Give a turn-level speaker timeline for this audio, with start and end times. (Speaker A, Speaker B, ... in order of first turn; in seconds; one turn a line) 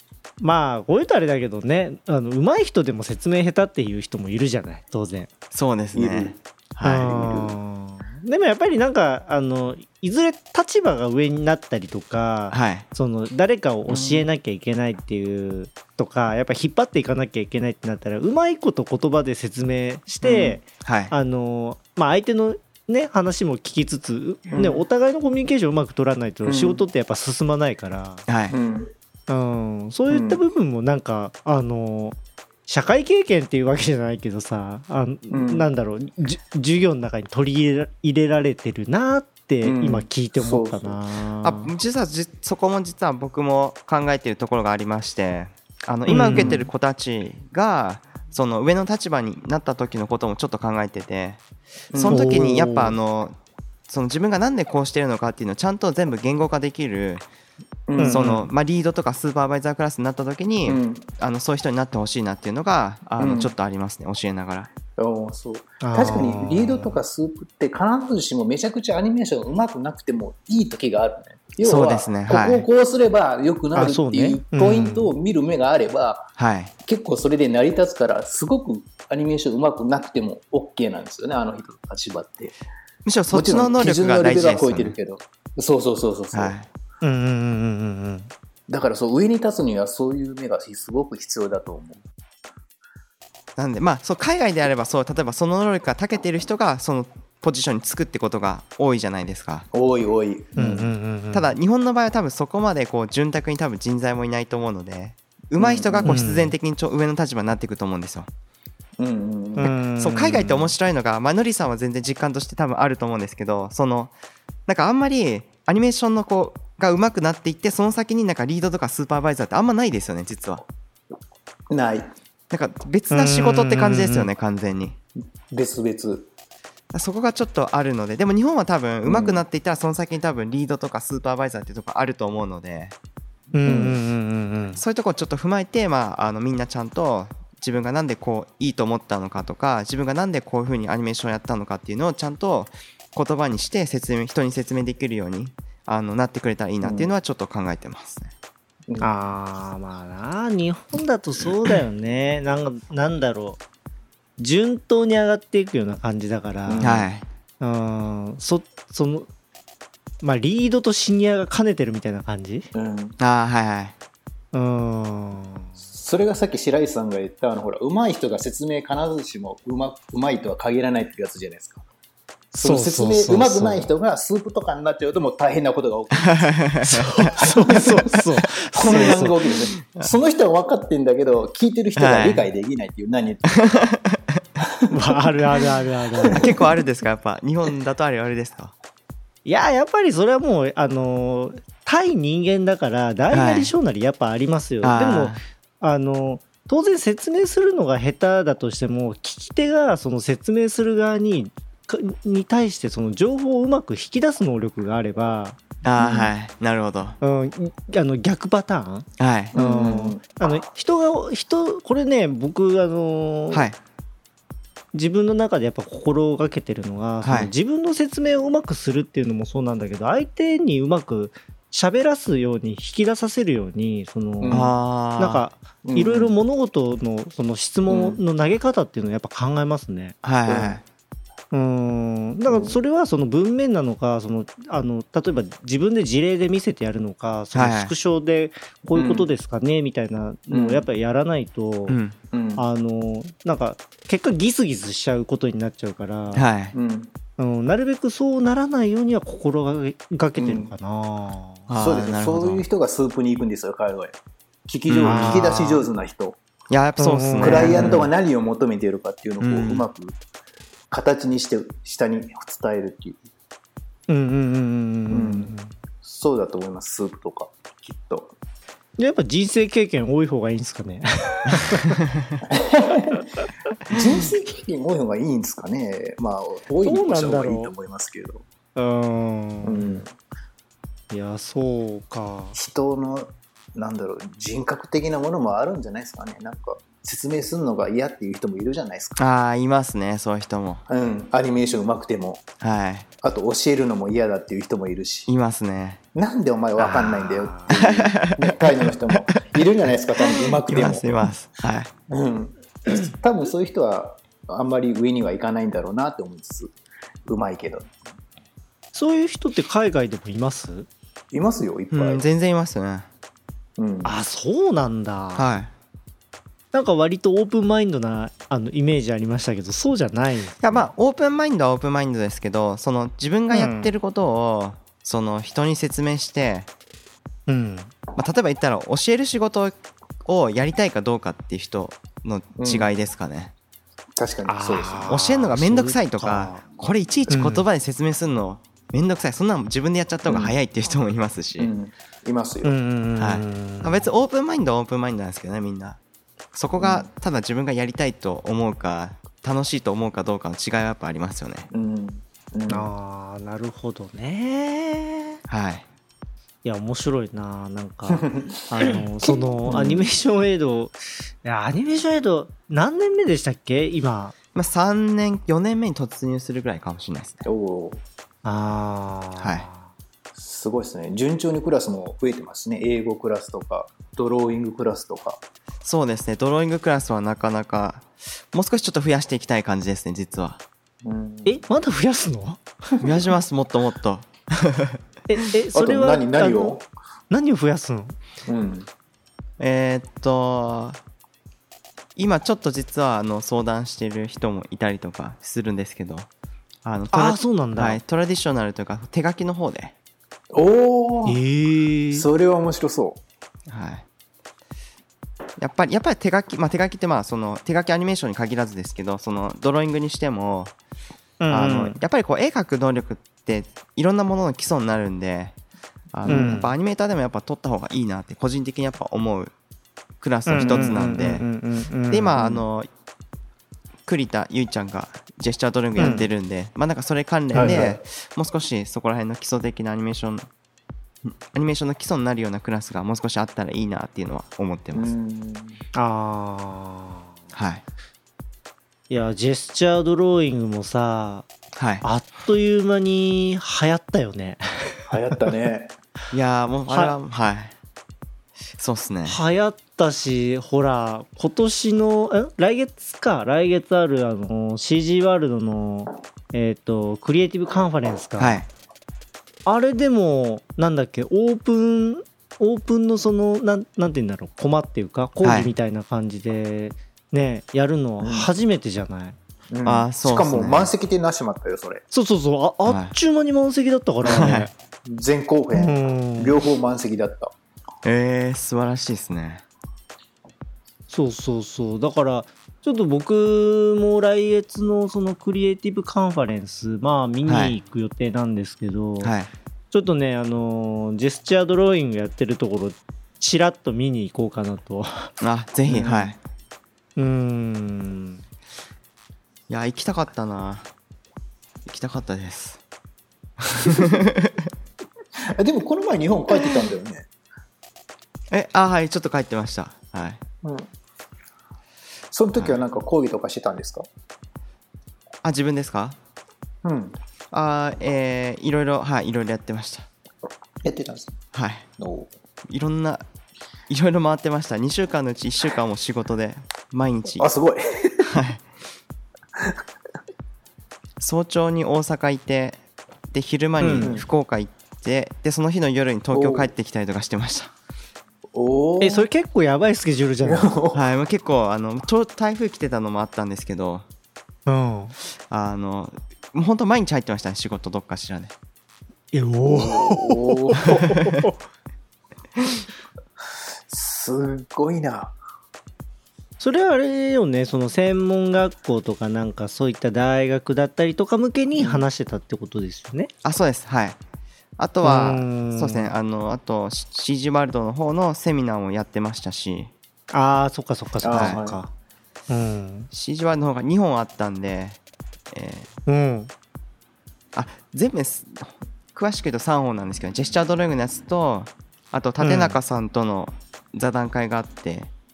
Speaker A: 0.4-5.3
Speaker B: 5.5-7.1
Speaker C: 5.9-6.4
Speaker A: 6.8-28.2
Speaker C: 7.0-7.6
Speaker B: 12.5-12.9
Speaker C: 20.2-20.6
Speaker B: 20.8-21.1
Speaker C: 24.5-24.8
Speaker C: 26.4-26.8
Speaker B: 28.3-28.6
Speaker C: 28.5-28.9
Speaker A: 29.3-41.7
Speaker C: 30.1-30.4
Speaker C: 35.3-35.6
Speaker C: 39.6-41.0
Speaker B: 41.4-51.4
Speaker A: 46.1-46.7
Speaker C: 46.3-46.6
Speaker C: 51.9-52.4
Speaker B: 51.9-53.4
Speaker A: 52.1-52.9
Speaker B: 53.9-57.2
Speaker C: 57.9-58.4
Speaker A: 58.0-58.5
Speaker B: 58.0-64.7
Speaker C: 60.7-61.1
Speaker C: 63.2-63.5
Speaker C: 65.0-76.3
Speaker A: 65.8-67.0
Speaker B: 71.6-72.7
Speaker A: 73.8-75.1
Speaker B: 76.4-76.7
Speaker C: 76.8-82.6
Speaker B: 83.0-85.0
Speaker C: 83.3-86.5
Speaker B: 86.3-86.7
Speaker A: 87.0-88.3
Speaker C: 88.7-92.0
Speaker B: 93.6-99.7
Speaker C: 99.7-100.9
Speaker A: 100.6-101.5
Speaker B: 101.3-108.3
Speaker C: 105.6-106.2
Speaker A: 106.0-106.5
Speaker C: 109.0-109.8
Speaker A: 109.6-110.7
Speaker B: 110.0-114.1
Speaker B: 114.7-120.6
Speaker C: 121.7-122.1
Speaker B: 122.5-125.0
Speaker A: 123.1-124.3
Speaker C: 125.5-126.3
Speaker B: 126.9-133.0
Speaker C: 129.1-129.4
Speaker A: 133.5-134.8
Speaker C: 133.7-134.0
Speaker B: 134.8-148.3
Speaker C: 146.8-147.1
Speaker A: 149.0-153.6
Speaker A: 154.4-156.9
Speaker C: 156.7-157.1
Speaker B: 156.8-157.2
Speaker A: 157.6-159.3
Speaker A: 160.2-162.7
Speaker C: 162.7-163.2
Speaker B: 163.2-163.9
Speaker A: 164.5-165.7
Speaker C: 165.9-171.8
Speaker C: 172.5-176.6
Speaker A: 172.6-173.9
Speaker B: 176.2-177.2
Speaker A: 176.8-179.4
Speaker C: 177.4-178.2
Speaker C: 178.7-183.6
Speaker B: 178.9-179.3
Speaker B: 182.0-182.5
Speaker B: 183.6-184.4
Speaker A: 184.9-186.5
Speaker C: 186.3-186.7
Speaker B: 186.3-188.7
Speaker A: 189.4-205.6
Speaker B: 193.3-193.7
Speaker B: 194.8-195.4
Speaker B: 205.8-207.2
Speaker C: 206.0-206.3
Speaker A: 207.2-213.7
Speaker B: 209.2-209.6
Speaker C: 209.6-210.2
Speaker B: 213.5-213.8
Speaker A: 214.9-230.2
Speaker B: 217.2-217.5
Speaker C: 224.4-224.7
Speaker B: 224.5-225.5
Speaker C: 225.8-226.4
Speaker C: 227.9-228.2
Speaker B: 230.2-230.8
Speaker C: 230.5-230.8
Speaker A: 231.5-242.0
Speaker C: 232.5-232.8
Speaker B: 237.5-237.9
Speaker C: 238.9-239.3
Speaker C: 240.5-240.9
Speaker B: 241.9-242.2
Speaker C: 242.3-242.7
Speaker A: 242.6-246.5
Speaker B: 246.3-246.8
Speaker C: 246.7-247.1
Speaker A: 247.4-251.7
Speaker C: 250.4-250.7
Speaker B: 251.7-252.6
Speaker C: 251.8-256.4
Speaker B: 254.9-255.5
Speaker A: 255.1-255.8
Speaker B: 256.7-258.1
Speaker A: 257.0-258.1
Speaker C: 257.4-260.2
Speaker B: 259.4-259.9
Speaker C: 260.9-263.2
Speaker A: 264.1-265.7
Speaker C: 265.1-268.4
Speaker A: 269.0-272.0
Speaker B: 271.6-272.4
Speaker C: 272.5-273.2
Speaker C: 273.9-278.5
Speaker A: 276.8-277.7
Speaker A: 278.8-280.0
Speaker C: 279.6-280.1
Speaker A: 281.1-282.6
Speaker C: 282.6-289.2
Speaker B: 289.2-290.8
Speaker C: 290.9-292.5
Speaker B: 292.6-293.1
Speaker C: 293.2-295.3
Speaker B: 295.3-296.0
Speaker C: 296.1-301.2
Speaker A: 296.8-297.8
Speaker B: 297.7-299.6
Speaker B: 300.2-301.9
Speaker C: 302.1-306.7
Speaker C: 307.3-307.9
Speaker A: 308.9-310.9
Speaker C: 311.3-312.2
Speaker B: 311.9-313.1
Speaker C: 313.8-314.1
Speaker A: 314.0-315.5
Speaker B: 315.4-315.7
Speaker A: 316.7-320.9
Speaker B: 320.6-326.7
Speaker A: 323.5-323.9
Speaker A: 327.5-327.9
Speaker B: 328.2-333.5
Speaker C: 332.6-332.9
Speaker C: 334.2-335.1
Speaker A: 334.5-336.7
Speaker B: 335.1-341.7
Speaker A: 337.3-337.6
Speaker C: 340.3-340.6
Speaker C: 341.6-342.7
Speaker A: 342.6-344.1
Speaker B: 343.2-346.0
Speaker B: 346.5-351.7
Speaker C: 346.8-347.1
Speaker C: 351.7-352.9
Speaker A: 352.7-355.4
Speaker B: 355.5-355.9
Speaker A: 356.6-364.3
Speaker C: 358.1-360.1
Speaker B: 364.6-367.4
Speaker C: 367.4-368.0
Speaker A: 368.4-369.9
Speaker B: 369.4-369.7
Speaker C: 370.4-375.4
Speaker B: 375.8-380.6
Speaker C: 381.0-381.6
Speaker A: 381.5-382.6
Speaker B: 383.0-385.0
Speaker A: 385.3-386.8
Speaker C: 385.7-386.9
Speaker A: 387.3-388.2
Speaker C: 388.5-388.9
Speaker B: 389.6-391.0
Speaker B: 392.2-396.3
Speaker B: 396.8-399.9
Speaker A: 397.1-398.0
Speaker C: 400.5-401.4
Speaker A: 401.3-402.3
Speaker C: 402.1-403.2
Speaker B: 403.7-404.1
Speaker B: 405.6-410.7
Speaker A: 411.4-412.0
Speaker B: 411.5-415.6
Speaker B: 416.1-419.5
Speaker A: 416.3-416.7
Speaker C: 416.3-416.6
Speaker B: 420.2-421.5
Speaker A: 420.5-422.4
Speaker C: 420.6-421.0
Speaker B: 422.1-422.9
Speaker C: 422.4-422.6
Speaker B: 424.1-430.5
Speaker A: 426.0-426.3
Speaker A: 427.5-427.8
Speaker C: 427.5-428.0
Speaker B: 431.2-435.1
Speaker C: 434.9-435.8
Speaker A: 435.9-437.3
Speaker B: 437.5-437.8
Speaker A: 439.1-441.5
Speaker B: 441.8-442.1
Speaker A: 442.0-445.1
Speaker C: 445.1-445.9
Speaker B: 446.3-447.7
Speaker A: 446.9-447.1
Speaker B: 448.8-449.4
Speaker A: 449.3-458.6
Speaker B: 458.4-458.7
Speaker A: 459.7-469.4
Speaker B: 465.4-465.7
Speaker C: 468.2-468.5
Speaker C: 469.7-472.0
Speaker B: 469.8-470.9
Speaker A: 472.1-474.7
Speaker B: 472.9-473.1
Speaker B: 474.3-474.7
Speaker C: 474.3-474.5
Speaker C: 475.1-477.5
Speaker A: 475.7-476.6
Speaker B: 478.0-479.6
Speaker A: 481.1-489.3
Speaker B: 487.5-487.8
Speaker B: 489.2-489.5
Speaker A: 489.9-495.3
Speaker B: 495.4-496.4
Speaker C: 495.9-496.3
Speaker A: 497.2-498.4
Speaker B: 499.7-500.9
Speaker B: 501.9-502.8
Speaker B: 503.6-504.7
Speaker C: 505.6-507.3
Speaker B: 508.5-510.4
Speaker C: 510.6-510.9
Speaker C: 512.3-514.1
Speaker B: 512.6-512.8
Speaker B: 515.4-516.2
Speaker C: 516.8-517.2
Speaker B: 517.5-520.1
Speaker C: 520.8-521.4
Speaker B: 521.5-521.9
Speaker C: 522.0-522.3
Speaker B: 522.7-523.2
Speaker B: 523.9-527.5
Speaker C: 527.4-528.4
Speaker B: 528.2-528.6
Speaker B: 531.2-532.8
Speaker B: 533.3-537.7
Speaker A: 533.8-534.2
Speaker C: 534.0-534.2
Speaker C: 536.3-536.7
Speaker C: 538.5-539.3
Speaker A: 539.0-540.7
Speaker C: 540.4-541.0
Speaker B: 540.9-544.0
Speaker A: 544.7-545.1
Speaker B: 545.5-548.5
Speaker A: 549.3-551.5
Speaker C: 549.6-551.1
Speaker B: 550.9-551.4
Speaker C: 553.9-555.4
Speaker A: 556.6-563.3
Speaker C: 561.8-562.1
Speaker B: 563.4-564.2
Speaker B: 564.8-569.9
Speaker A: 565.0-566.1
Speaker A: 570.3-571.9
Speaker C: 571.2-571.8
Speaker A: 572.5-573.1
Speaker B: 573.1-575.0
Speaker B: 575.5-575.9
Speaker A: 576.1-576.5
Speaker B: 577.5-585.1
Speaker A: 582.4-582.8